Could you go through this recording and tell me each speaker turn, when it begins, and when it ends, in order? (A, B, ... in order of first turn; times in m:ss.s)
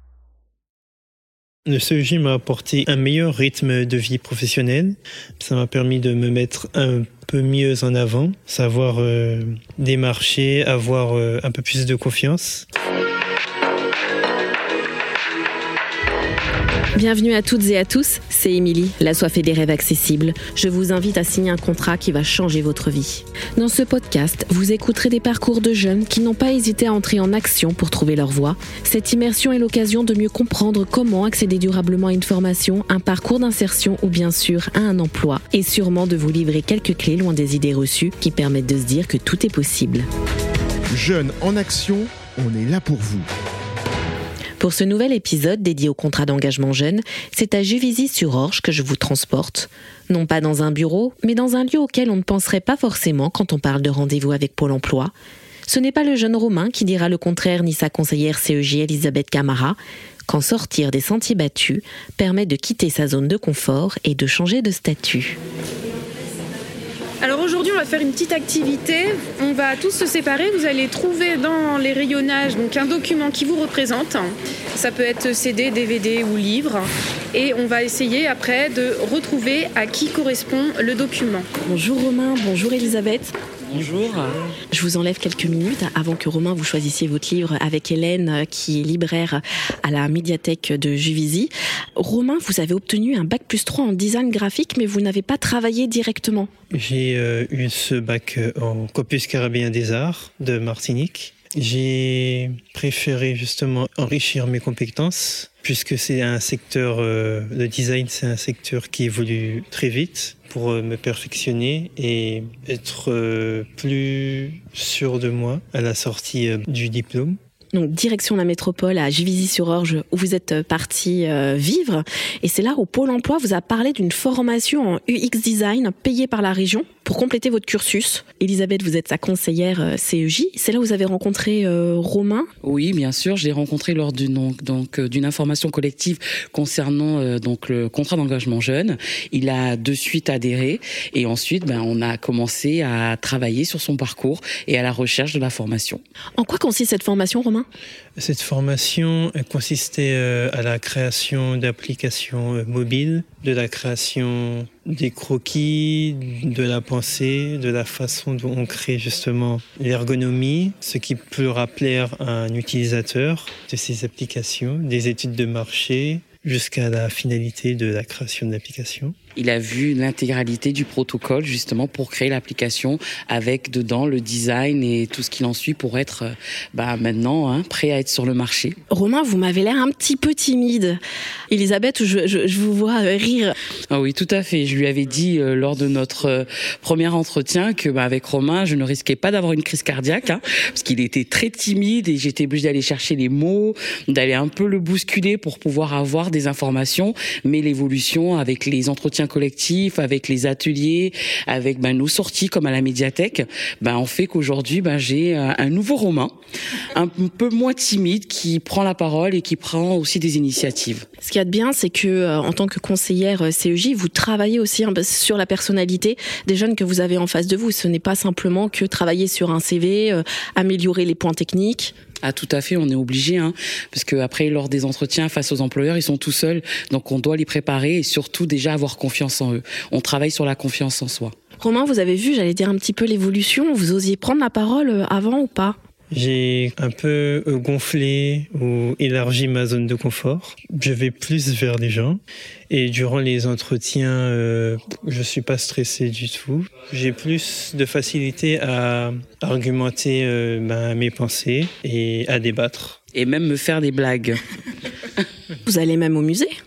0:01.7-0:12.7 A
0:17.0-0:40.1 B
0:40.9-0:43.3 C
0:44.6-0:55.1 B
0:55.7-1:05.4 B
1:07.2-1:21.5 D
1:21.7-1:23.3 B
1:23.7-1:24.4 E
1:24.7-1:36.5 B
1:36.7-1:57.4 A
1:57.7-2:12.5 B
2:12.6-2:26.0 E
2:26.4-2:27.7 B
2:28.2-2:49.2 A
2:49.4-2:58.8 E
2:58.9-3:03.6 B
3:03.9-3:26.3 E
3:26.9-3:31.1 E
3:31.2-3:41.9 B
3:42.2-3:51.4 E
3:51.6-3:55.8 B
3:56.1-4:13.0 A
4:13.1-4:14.4 E
4:15.6-4:16.5 B